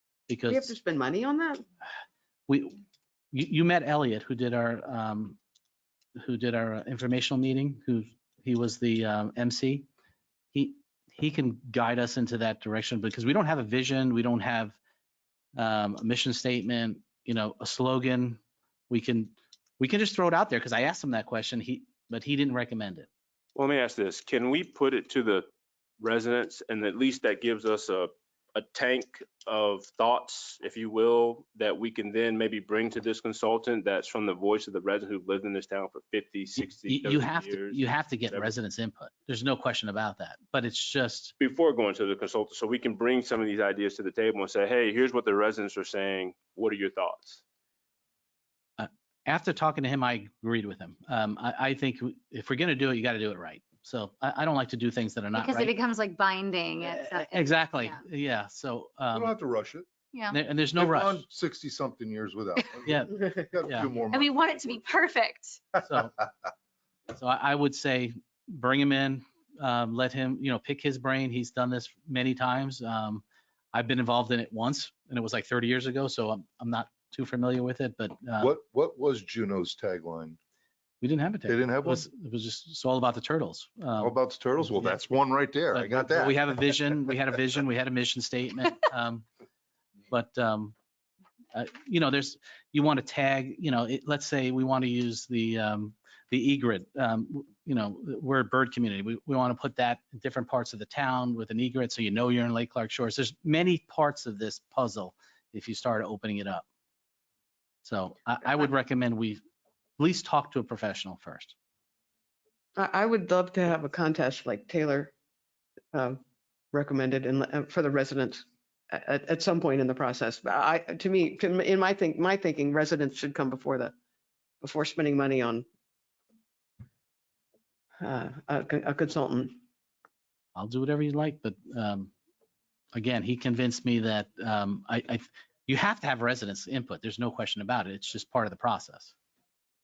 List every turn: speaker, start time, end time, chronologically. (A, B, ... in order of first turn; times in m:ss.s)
0:00.3-0:00.7 A
0:00.5-0:01.6 B
0:02.5-0:02.8 A
0:03.3-0:05.4 A
0:06.2-0:09.9 A
0:10.5-0:14.8 A
0:15.6-0:23.1 A
0:23.5-0:25.5 C
0:26.0-0:38.5 C
0:36.6-0:41.3 A
0:41.4-0:47.4 C
0:48.8-0:55.7 A
0:55.4-0:58.0 D
0:56.9-0:59.3 A
0:59.1-0:59.9 E
1:00.1-1:00.4 D
1:00.3-1:01.2 A
1:00.7-1:04.7 E
1:02.8-1:03.9 A
1:04.1-1:05.7 D
1:05.8-1:06.2 A
1:07.1-1:18.5 A
1:18.4-1:20.4 E
1:21.0-1:25.0 A
1:21.5-1:22.0 E
1:24.0-1:26.7 E
1:25.7-1:29.2 A
1:30.1-1:30.7 A
1:31.5-1:46.6 A
1:47.8-1:49.4 A
1:50.0-1:51.5 A
1:52.8-1:55.1 B
1:55.9-1:56.2 B
1:56.7-2:03.9 B
2:04.6-2:05.6 B
2:08.0-2:09.6 B
2:10.5-2:12.1 A
2:12.9-2:19.1 A